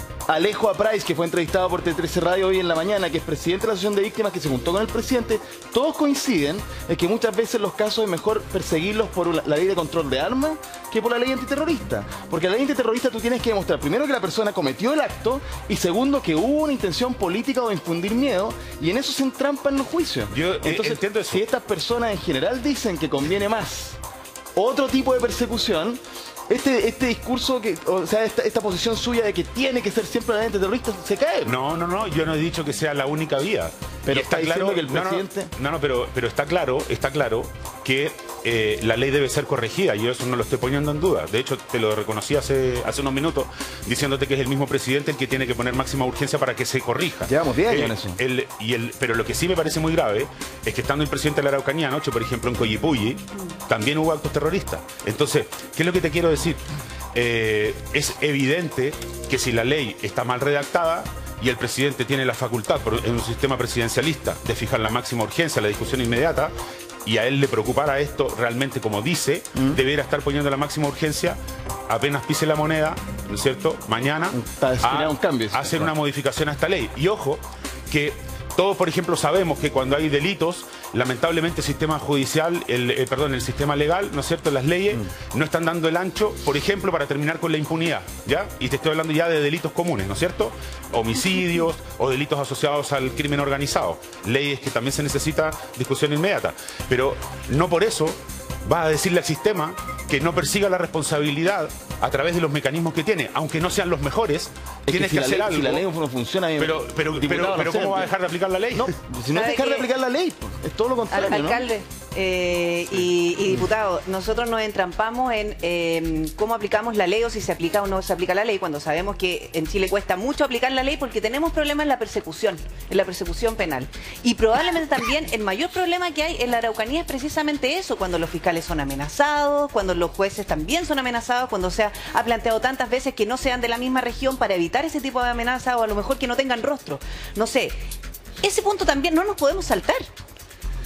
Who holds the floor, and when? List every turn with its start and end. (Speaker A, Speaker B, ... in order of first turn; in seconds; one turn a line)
Speaker A: 0.3-24.0
Speaker B: 20.3-21.4
Speaker A: 24.5-31.6
Speaker B: 31.4-56.6
Speaker A: 34.0-35.5
Speaker A: 47.2-48.2
Speaker B: 57.1-66.5
Speaker B: 67.0-71.4
Speaker B: 71.9-105.8
Speaker A: 74.3-75.9
Speaker A: 104.9-108.1
Speaker B: 106.6-109.0
Speaker A: 108.7-111.6
Speaker C: 109.3-109.9
Speaker C: 111.1-137.8
Speaker C: 138.4-140.1